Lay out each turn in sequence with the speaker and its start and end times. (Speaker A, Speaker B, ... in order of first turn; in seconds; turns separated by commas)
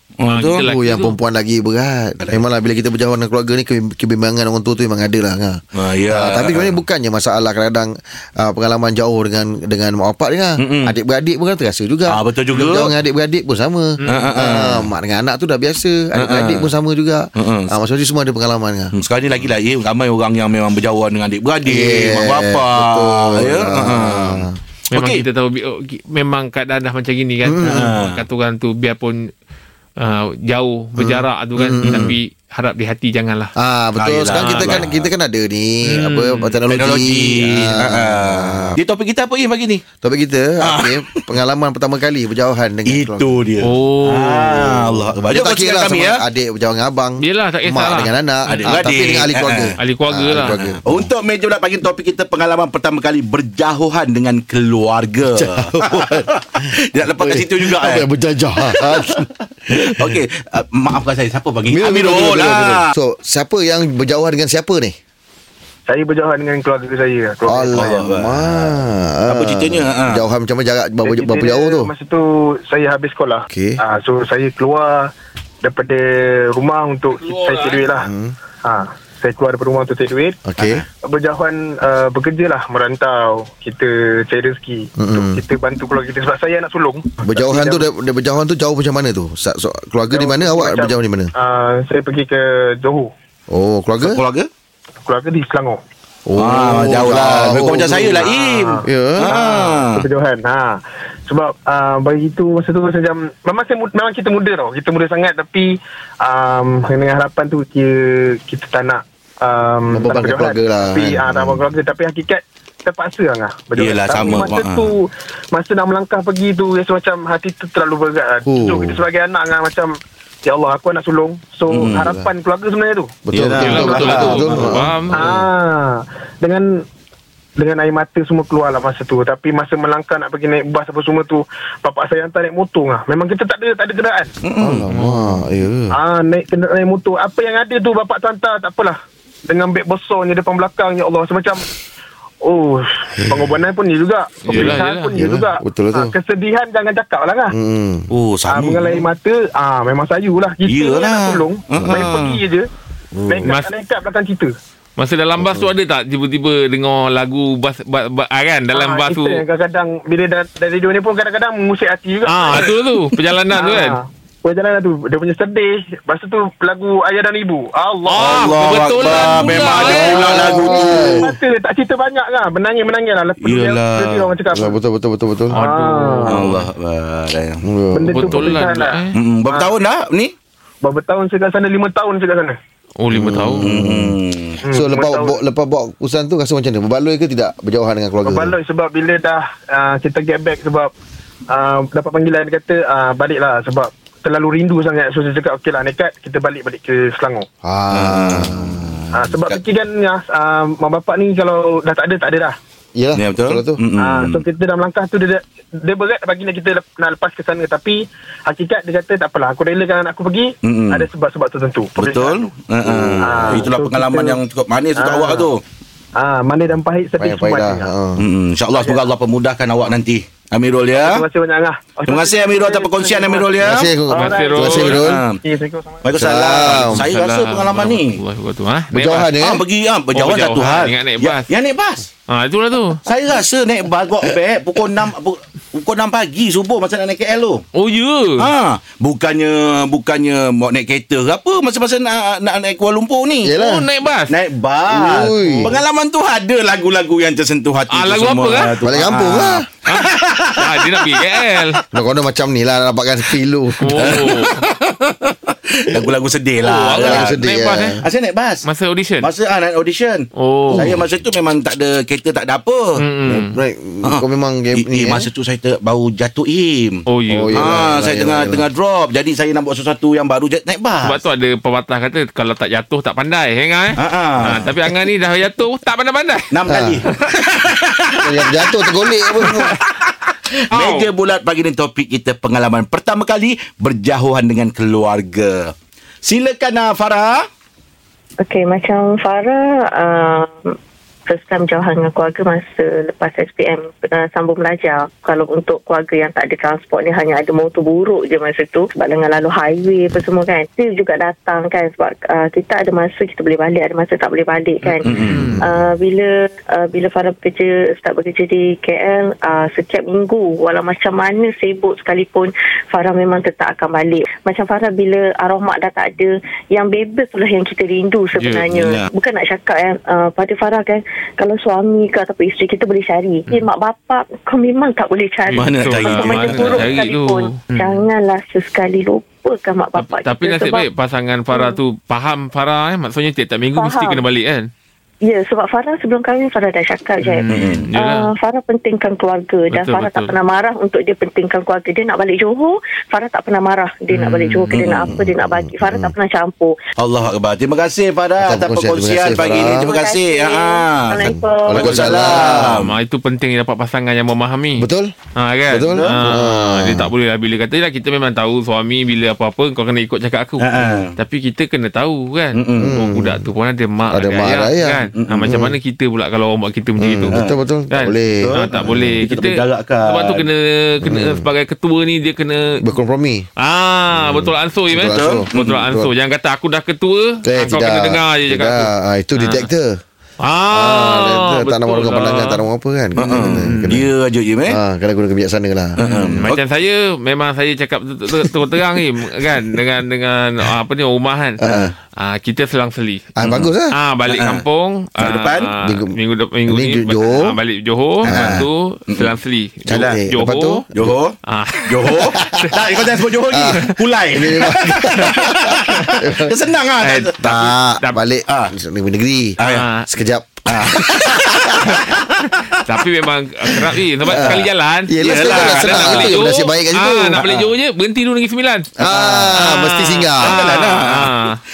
Speaker A: 0.2-0.6, Speaker B: 0.3-1.2, Speaker C: 0.6-18.9, Speaker A: 5.8-6.8, Speaker A: 10.6-11.0, Speaker A: 12.1-12.9, Speaker B: 14.0-14.3, Speaker A: 14.1-14.9, Speaker A: 16.2-16.7, Speaker A: 17.4-17.8, Speaker A: 18.9-25.3, Speaker C: 21.6-24.6, Speaker B: 24.9-29.3, Speaker C: 27.4-28.0, Speaker A: 27.6-28.2, Speaker B: 30.0-33.5, Speaker C: 31.0-32.2, Speaker A: 31.8-32.1, Speaker C: 33.6-38.8, Speaker A: 34.0-35.1, Speaker B: 34.3-34.9, Speaker B: 35.9-36.6, Speaker A: 36.7-39.8, Speaker C: 40.0-43.4, Speaker A: 40.6-41.3, Speaker A: 42.9-46.2, Speaker B: 43.6-44.8, Speaker C: 44.7-51.1, Speaker B: 47.2-48.8, Speaker A: 48.6-49.8, Speaker B: 49.8-50.6, Speaker A: 50.5-58.1, Speaker C: 55.3-60.2, Speaker A: 58.6-62.9, Speaker C: 61.7-65.0, Speaker D: 65.9-68.0, Speaker C: 67.5-71.9, Speaker A: 67.7-68.8, Speaker A: 69.3-70.2, Speaker D: 71.1-75.1, Speaker C: 73.5-73.8, Speaker D: 75.6-78.1, Speaker B: 77.1-77.9, Speaker C: 78.0-78.3, Speaker D: 78.6-80.4, Speaker C: 80.5-80.8, Speaker A: 80.6-80.9, Speaker D: 81.0-87.9, Speaker C: 85.0-85.4, Speaker C: 87.2-91.3, Speaker D: 90.1-93.1, Speaker C: 93.5-94.2, Speaker A: 94.0-94.5, Speaker D: 95.0-95.8, Speaker C: 96.3-98.2, Speaker A: 96.4-100.1, Speaker D: 98.2-124.1, Speaker C: 98.9-99.3, Speaker C: 109.9-111.6, Speaker A: 113.8-114.9, Speaker C: 118.5-119.0, Speaker A: 121.7-122.1, Speaker C: 121.8-122.2, Speaker C: 123.3-125.4, Speaker A: 123.3-124.9, Speaker B: 123.6-125.3, Speaker D: 125.1-126.7, Speaker D: 127.6-134.3, Speaker A: 134.4-134.9, Speaker C: 134.6-135.9, Speaker B: 134.9-135.5, Speaker D: 136.0-139.0, Speaker D: 139.5-141.7, Speaker D: 142.4-147.5, Speaker C: 143.2-143.5, Speaker B: 144.4-145.2, Speaker C: 145.2-146.1, Speaker C: 147.5-148.1, Speaker A: 148.1-149.1, Speaker D: 148.5-152.7, Speaker A: 150.6-152.4, Speaker C: 151.8-152.2, Speaker C: 153.1-153.5, Speaker D: 153.3-154.5, Speaker B: 153.4-153.7, Speaker B: 155.0-159.4, Speaker C: 155.4-155.7, Speaker D: 158.7-162.8, Speaker B: 162.3-164.0, Speaker D: 163.5-168.4, Speaker B: 168.1-170.6, Speaker A: 168.2-171.4, Speaker D: 169.2-169.8, Speaker C: 169.8-171.3, Speaker D: 170.5-174.8, Speaker A: 173.4-174.3, Speaker C: 174.5-175.6, Speaker B: 175.5-176.7, Speaker D: 175.6-176.4, Speaker A: 176.3-177.6, Speaker C: 177.6-178.5, Speaker D: 177.9-179.7, Speaker B: 178.1-179.2, Speaker A: 179.1-180.3, Speaker D: 180.8-182.6, Speaker B: 183.0-183.7, Speaker C: 183.1-184.2, Speaker A: 183.6-184.7, Speaker D: 184.6-185.4, Speaker C: 184.8-188.6, Speaker D: 188.3-190.9, Speaker D: 191.5-197.5, Speaker C: 197.6-199.1, Speaker A: 197.9-199.1, Speaker D: 199.1-202.6, Speaker C: 202.9-203.8, Speaker A: 203.2-204.5, Speaker D: 204.0-212.3, Speaker A: 210.6-211.1, Speaker A: 211.9-215.6, Speaker C: 212.9-213.7, Speaker D: 213.2-214.4, Speaker D: 215.0-215.5, Speaker D: 216.2-217.9, Speaker C: 217.2-218.2, Speaker A: 218.2-221.3, Speaker D: 218.7-219.0, Speaker D: 220.9-223.6, Speaker A: 222.1-223.9, Speaker C: 223.6-225.2, Speaker D: 224.1-226.1, Speaker B: 224.2-225.1, Speaker A: 224.6-225.4, Speaker A: 226.0-228.2, Speaker C: 226.2-227.1, Speaker B: 226.8-229.3, Speaker C: 228.9-229.6, Speaker A: 229.3-232.1, Speaker B: 230.1-231.5, Speaker B: 232.3-233.0, Speaker A: 233.1-237.6, Speaker B: 237.7-238.5, Speaker A: 238.4-243.5, Speaker C: 243.4-243.9, Speaker B: 243.6-244.3, Speaker A: 244.3-251.8, Speaker C: 244.9-245.8, Speaker B: 247.9-248.8, Speaker C: 248.8-249.7, Speaker B: 249.9-251.8, Speaker C: 251.9-254.3, Speaker B: 253.8-254.7, Speaker A: 253.9-257.4, Speaker B: 256.6-258.0, Speaker C: 256.9-258.1, Speaker A: 258.0-258.7, Speaker B: 258.6-259.3, Speaker A: 259.2-263.0, Speaker B: 260.4-260.9, Speaker C: 260.7-261.0, Speaker B: 263.0-263.6, Speaker C: 263.3-265.3, Speaker A: 264.8-271.2, Speaker B: 267.1-267.7, Speaker C: 267.3-268.7, Speaker B: 271.0-276.5, Speaker A: 274.0-274.7, Speaker C: 274.4-274.7, Speaker A: 276.5-287.4, Speaker C: 276.7-277.1, Speaker C: 278.2-279.8, Speaker B: 280.7-281.1, Speaker E: 288.4-290.7, Speaker E: 291.3-330.9, Speaker B: 304.8-305.6, Speaker A: 305.0-305.6, Speaker B: 318.4-318.6, Speaker A: 318.7-319.1, Speaker B: 325.5-328.1, Speaker A: 325.6-326.9, Speaker B: 330.0-334.7, Speaker E: 331.5-331.8, Speaker E: 333.8-334.2, Speaker E: 335.2-346.7, Speaker B: 337.2-338.3, Speaker A: 337.5-337.9, Speaker B: 339.7-340.3, Speaker B: 344.1-344.8, Speaker A: 344.7-345.2, Speaker C: 345.1-346.1, Speaker A: 347.0-352.9, Speaker C: 348.4-349.9, Speaker E: 349.4-352.5, Speaker C: 351.2-352.9, Speaker B: 352.6-372.8, Speaker C: 354.8-355.1, Speaker C: 355.7-357.1, Speaker A: 355.9-356.2, Speaker A: 360.6-361.1, Speaker A: 362.5-362.9, Speaker C: 362.8-363.5, Speaker C: 364.1-365.8, Speaker A: 365.2-365.5, Speaker C: 367.0-369.2, Speaker A: 367.3-367.6, Speaker A: 368.4-370.5, Speaker C: 371.0-371.5, Speaker C: 372.8-373.5, Speaker B: 373.6-379.7, Speaker C: 374.1-376.1, Speaker A: 375.1-375.8, Speaker C: 377.4-380.0, Speaker B: 380.4-382.6, Speaker C: 380.7-384.1, Speaker A: 383.2-384.8, Speaker B: 383.6-383.9, Speaker C: 384.7-386.4, Speaker A: 386.0-386.6, Speaker B: 386.0-400.9, Speaker C: 391.6-391.9, Speaker A: 391.6-391.9, Speaker C: 393.4-393.9, Speaker A: 394.3-394.6, Speaker A: 395.2-395.7, Speaker C: 395.8-397.6, Speaker A: 398.2-399.3, Speaker C: 398.3-398.7, Speaker C: 399.9-401.2, Speaker A: 399.9-400.2, Speaker A: 400.9-401.4, Speaker B: 401.5-402.9, Speaker A: 401.9-407.6, Speaker C: 402.1-402.6, Speaker C: 403.5-406.7, Speaker B: 403.7-404.0, Speaker B: 405.2-405.5, Speaker B: 407.0-408.2, Speaker C: 407.4-411.6, Speaker A: 408.5-408.7, Speaker A: 409.6-409.9, Speaker B: 409.6-410.1, Speaker A: 410.7-412.2, Speaker B: 411.8-421.6, Speaker A: 414.2-414.6, Speaker C: 414.2-417.6, Speaker A: 415.2-416.5, Speaker A: 417.4-417.7, Speaker C: 419.0-420.6, Speaker A: 419.1-419.5, Speaker A: 420.4-421.3